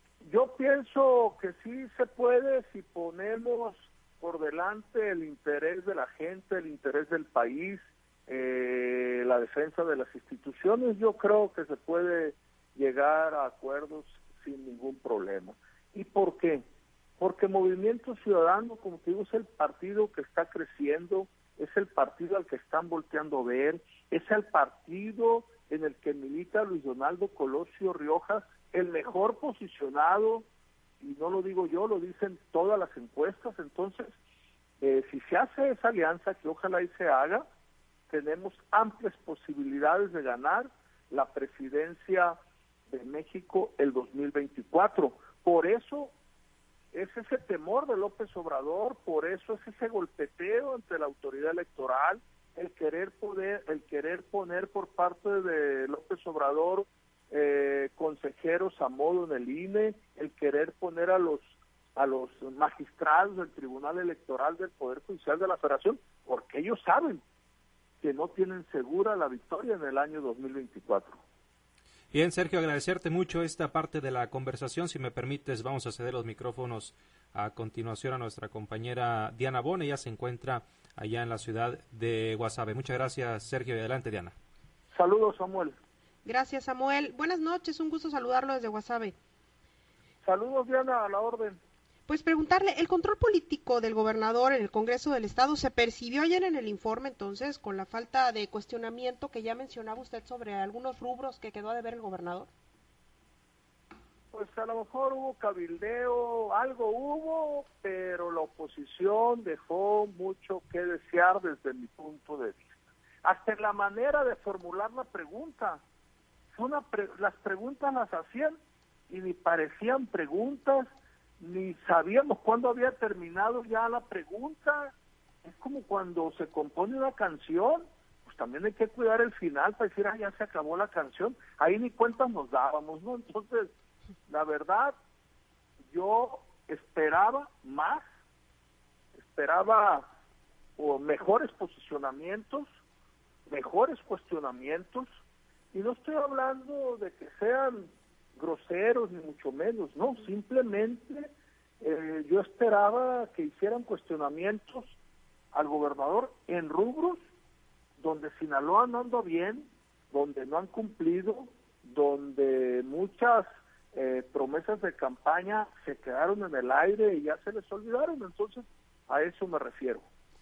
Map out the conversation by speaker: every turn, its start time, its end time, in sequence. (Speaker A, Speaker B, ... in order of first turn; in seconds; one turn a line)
Speaker A: 0.2-16.6
Speaker A: 17.2-30.4
Speaker A: 31.0-34.1
Speaker A: 34.8-37.4
Speaker A: 38.1-42.4
Speaker A: 42.9-46.1
Speaker A: 46.9-61.4
Speaker A: 62.0-67.2
Speaker A: 68.0-71.2
Speaker B: 72.1-84.3
Speaker A: 84.9-85.8
Speaker C: 86.2-89.1
Speaker A: 90.2-91.6
Speaker C: 92.1-102.5
Speaker A: 104.3-115.8
Speaker A: 116.5-118.6
Speaker A: 119.1-120.9
Speaker A: 121.4-124.9
Speaker A: 125.4-133.7
Speaker A: 134.3-134.9
Speaker A: 135.9-138.0
Speaker A: 139.2-140.1
Speaker A: 140.8-142.7
Speaker A: 143.5-145.1
Speaker A: 145.7-147.8
Speaker A: 148.4-151.3
Speaker A: 151.8-154.9
Speaker A: 155.5-157.2
Speaker A: 158.0-170.0